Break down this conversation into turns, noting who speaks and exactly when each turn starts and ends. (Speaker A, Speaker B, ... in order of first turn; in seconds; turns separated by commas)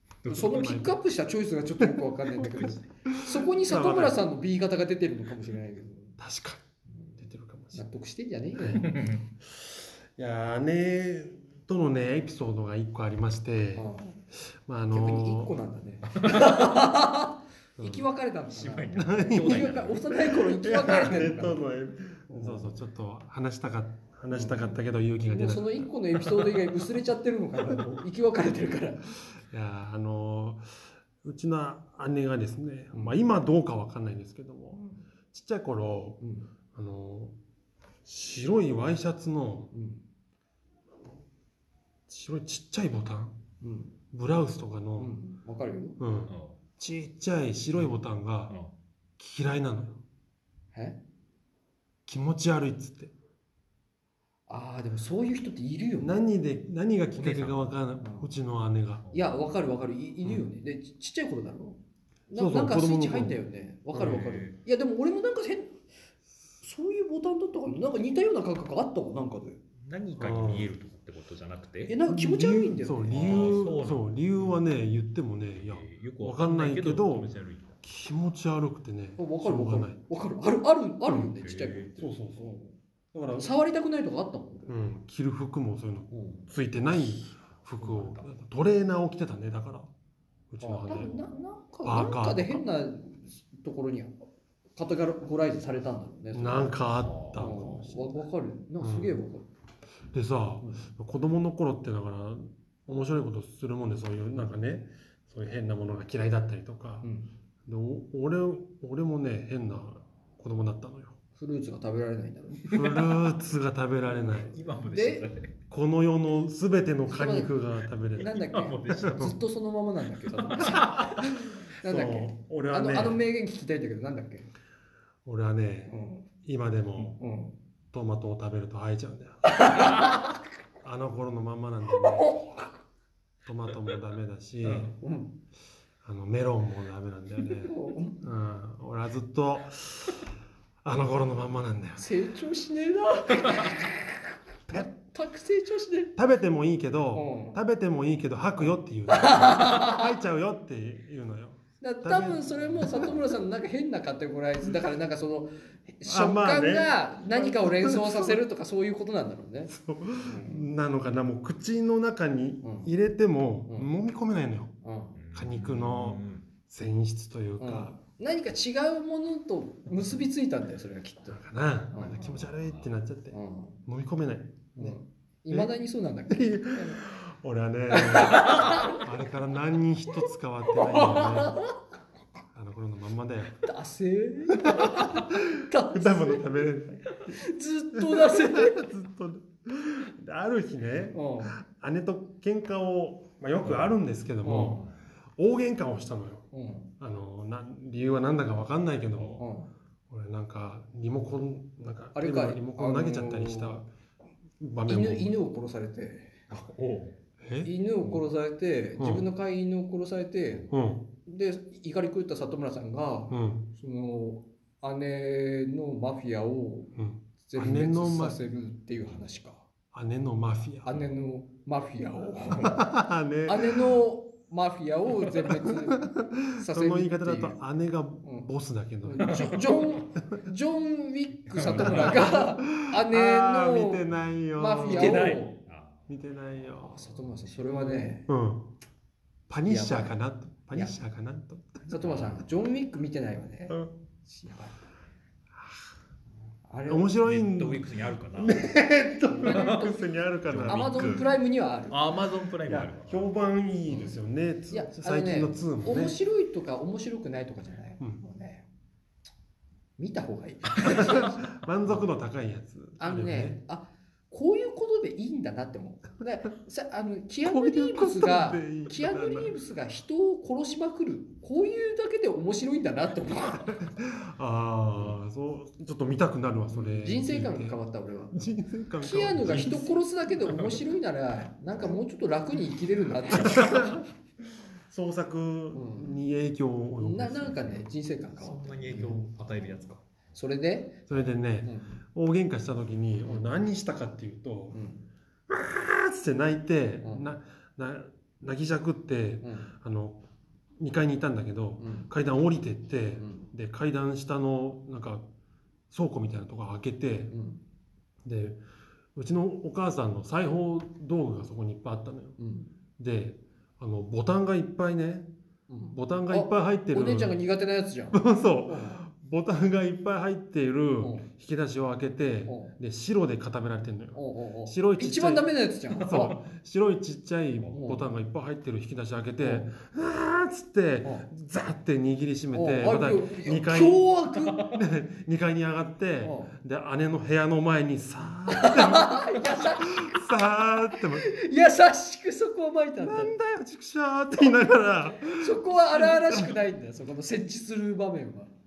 Speaker A: 0.2-0.7, Speaker B: 0.3-1.0, Speaker C: 0.3-6.2, Speaker B: 1.8-4.2, Speaker B: 6.2-6.6, Speaker B: 7.2-7.8, Speaker C: 7.7-8.9, Speaker B: 8.6-8.8, Speaker A: 8.8-9.2, Speaker B: 10.2-13.9, Speaker C: 13.7-14.2, Speaker B: 14.7-15.6, Speaker C: 14.9-21.7, Speaker A: 16.1-16.5, Speaker B: 17.8-18.1, Speaker A: 18.5-20.0, Speaker B: 18.9-25.8, Speaker C: 22.3-22.7, Speaker C: 24.3-29.1, Speaker B: 29.5-34.8, Speaker C: 32.9-33.2, Speaker C: 34.7-35.0, Speaker B: 35.3-36.2, Speaker C: 36.2-36.5, Speaker B: 36.7-37.3, Speaker B: 38.0-39.7, Speaker C: 39.7-40.0, Speaker B: 42.1-43.4, Speaker C: 43.6-43.9, Speaker B: 44.1-45.1, Speaker C: 45.0-46.0, Speaker B: 46.0-48.5, Speaker A: 46.3-46.6, Speaker B: 49.2-50.0, Speaker C: 50.7-51.0, Speaker B: 52.1-53.1, Speaker C: 54.5-56.2, Speaker B: 56.0-59.0, Speaker A: 57.1-57.7, Speaker C: 58.0-58.3, Speaker A: 59.0-59.4, Speaker C: 59.1-65.8, Speaker B: 62.4-63.3, Speaker B: 63.9-64.2, Speaker A: 64.0-64.6, Speaker C: 66.6-69.6, Speaker A: 69.8-72.0, Speaker B: 70.2-70.7, Speaker C: 71.9-73.7, Speaker B: 72.1-77.3, Speaker A: 73.1-74.6, Speaker A: 75.6-77.7, Speaker B: 77.8-80.0, Speaker C: 79.2-82.7, Speaker A: 81.3-82.0, Speaker B: 82.0-82.5, Speaker B: 83.1-83.5, Speaker C: 83.4-84.8, Speaker B: 84.7-89.9, Speaker C: 86.1-86.4, Speaker A: 87.8-88.3, Speaker B: 90.5-91.1, Speaker C: 90.6-94.1, Speaker B: 91.8-92.6, Speaker C: 94.8-96.8, Speaker B: 96.3-98.2, Speaker A: 97.0-97.5, Speaker C: 97.3-99.5, Speaker B: 98.8-99.2, Speaker B: 100.1-107.1, Speaker C: 107.0-107.3, Speaker B: 107.7-111.2, Speaker C: 111.4-112.9, Speaker B: 112.7-114.5, Speaker A: 114.1-115.5, Speaker C: 114.3-115.2, Speaker B: 115.7-118.3, Speaker C: 117.1-117.6, Speaker C: 118.1-124.5, Speaker A: 118.2-119.3, Speaker B: 119.1-119.3, Speaker A: 120.6-121.2, Speaker B: 121.2-123.2, Speaker B: 125.2-127.2, Speaker C: 125.9-126.2, Speaker C: 127.1-127.5, Speaker B: 127.9-129.8, Speaker C: 129.4-130.4, Speaker B: 130.8-132.4, Speaker C: 131.9-132.7, Speaker B: 133.4-134.9, Speaker C: 134.8-135.3, Speaker B: 136.0-140.2, Speaker C: 137.6-138.2, Speaker B: 140.8-142.1, Speaker C: 142.0-146.1, Speaker B: 146.2-153.2, Speaker C: 147.1-147.6, Speaker C: 149.1-150.1, Speaker C: 151.8-160.7, Speaker B: 156.1-158.4, Speaker B: 159.7-164.7, Speaker C: 162.6-162.9, Speaker C: 164.8-165.2, Speaker A: 165.1-166.4, Speaker B: 165.3-167.9, Speaker C: 167.6-172.3, Speaker B: 171.3-174.9, Speaker A: 172.5-172.9, Speaker C: 173.3-173.8, Speaker C: 174.8-177.0, Speaker B: 176.3-181.6, Speaker C: 177.9-179.1, Speaker C: 180.7-181.7, Speaker B: 182.5-183.6, Speaker C: 183.6-188.9, Speaker B: 184.5-187.1, Speaker B: 187.9-194.8, Speaker C: 191.1-191.6, Speaker A: 193.6-193.9, Speaker C: 194.4-194.9, Speaker B: 195.4-199.4, Speaker C: 196.5-196.9, Speaker A: 199.1-199.4, Speaker C: 199.4-199.7, Speaker B: 200.1-203.9, Speaker C: 202.1-203.8, Speaker B: 204.6-205.3, Speaker C: 204.8-206.4, Speaker A: 206.5-207.2, Speaker B: 207.4-208.1, Speaker C: 207.6-210.7, Speaker B: 209.0-209.3, Speaker B: 210.7-211.1, Speaker C: 211.2-216.9, Speaker B: 213.3-213.7, Speaker B: 217.0-218.4, Speaker C: 217.4-219.6, Speaker B: 219.9-221.0, Speaker C: 220.8-222.8, Speaker A: 222.5-222.8, Speaker B: 222.6-224.0, Speaker C: 223.4-227.6, Speaker B: 225.4-229.8, Speaker C: 228.2-228.5, Speaker C: 229.0-234.0, Speaker A: 231.5-232.2, Speaker B: 231.7-235.4, Speaker C: 234.6-235.6, Speaker A: 234.9-236.1, Speaker B: 236.1-237.3, Speaker C: 236.8-238.3, Speaker B: 238.2-238.7, Speaker B: 239.5-241.9, Speaker C: 239.6-240.2, Speaker C: 241.9-244.8, Speaker A: 241.9-242.4, Speaker C: 246.7-247.1, Speaker B: 246.9-251.2, Speaker A: 247.2-248.7, Speaker C: 249.4-249.9, Speaker A: 249.4-251.3, Speaker C: 250.7-252.0, Speaker A: 251.9-253.3, Speaker B: 252.7-256.2, Speaker C: 253.9-254.1, Speaker C: 254.7-258.6, Speaker C: 260.0-261.4, Speaker A: 260.8-261.1, Speaker B: 260.9-263.6, Speaker C: 263.0-273.9, Speaker B: 267.4-269.6, Speaker B: 273.6-277.8, Speaker C: 276.7-284.0, Speaker B: 278.3-280.8, Speaker B: 283.4-284.0, Speaker B: 284.9-287.8, Speaker C: 285.7-286.2, Speaker C: 287.0-289.3, Speaker A: 288.4-290.0, Speaker C: 290.3-291.0, Speaker B: 291.1-294.8, Speaker C: 291.6-292.0, Speaker C: 294.7-295.1, Speaker B: 295.5-300.2, Speaker C: 297.0-297.3, Speaker C: 299.4-299.7, Speaker B: 300.8-305.2, Speaker C: 301.8-302.1, Speaker C: 303.2-303.5, Speaker B: 305.9-307.3, Speaker C: 307.3-307.6, Speaker B: 308.2-308.6, Speaker B: 309.1-312.4, Speaker C: 312.4-312.7, Speaker B: 313.0-315.3, Speaker C: 315.7-319.0, Speaker B: 315.9-317.3, Speaker B: 318.1-334.1, Speaker C: 321.0-321.3, Speaker C: 322.5-322.7, Speaker C: 324.1-326.4, Speaker C: 327.7-328.1, Speaker C: 329.4-329.7, Speaker C: 331.0-331.3, Speaker C: 332.5-334.7, Speaker B: 334.7-341.3, Speaker C: 336.2-336.6, Speaker C: 338.5-340.2, Speaker C: 341.0-343.3, Speaker B: 343.0-346.5, Speaker C: 345.2-348.5